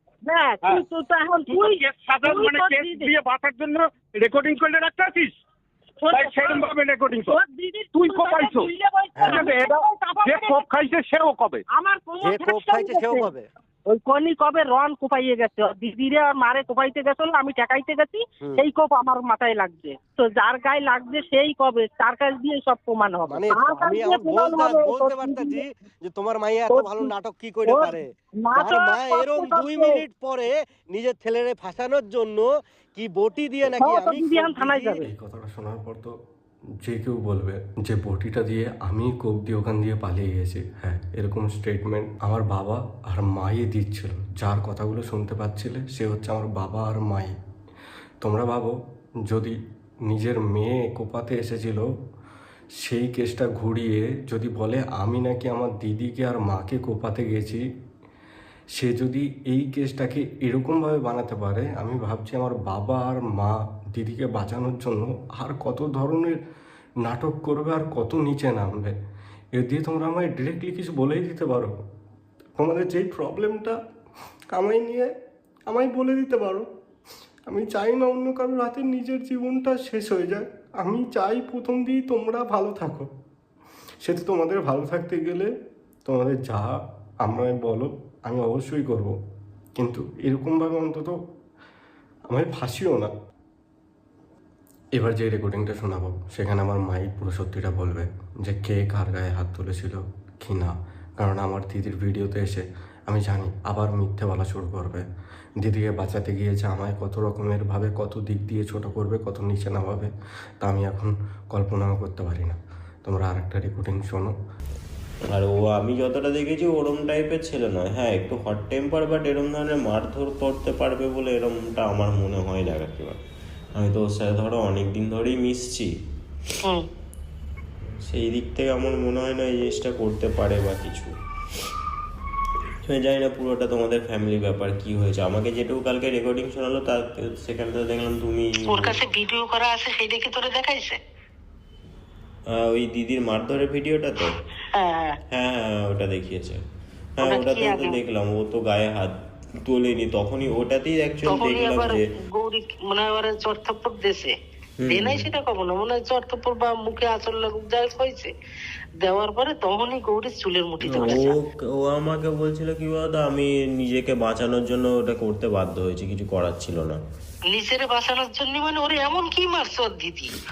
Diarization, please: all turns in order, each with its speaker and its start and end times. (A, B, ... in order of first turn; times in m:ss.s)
0:00.2-0:03.1 A
0:01.5-0:05.3 B
0:06.0-0:06.6 A
0:06.1-0:07.3 B
0:07.2-0:10.6 A
0:08.0-0:08.7 B
0:09.3-0:11.6 B
0:11.7-0:13.3 A
0:12.2-0:13.5 C
0:13.9-0:25.6 A
0:23.3-0:28.0 C
0:26.7-0:27.1 A
0:27.6-0:30.0 A
0:28.5-0:35.0 C
0:33.8-0:35.1 A
0:35.0-0:36.1 D
0:36.8-0:47.3 D
0:48.2-0:48.7 D
0:49.3-0:49.6 D
0:50.1-0:51.9 D
0:52.8-0:57.6 D
0:58.8-1:06.4 D
1:07.0-1:09.0 D
1:09.6-1:11.7 D
1:12.6-1:13.8 D
1:14.5-1:15.1 D
1:15.7-1:16.6 D
1:17.5-1:23.1 D
1:24.0-1:25.5 D
1:26.0-1:29.1 D
1:29.8-1:31.2 D
1:32.3-1:33.1 D
1:35.0-1:45.0 D
1:45.6-1:50.1 D
1:50.6-1:54.3 D
1:55.3-2:03.2 E
2:03.7-2:05.9 E
2:07.8-2:11.1 E
2:12.8-2:19.0 E
2:18.6-2:21.0 F
2:22.5-2:24.4 E
2:24.7-2:25.2 F
2:25.3-2:26.6 E
2:27.2-2:29.1 E
2:27.2-2:27.9 F
2:29.6-2:32.0 E
2:31.3-2:34.3 F
2:34.8-2:35.3 E
2:34.9-2:38.3 F
2:39.0-2:41.2 F
2:40.8-2:47.0 E
2:47.5-2:50.2 F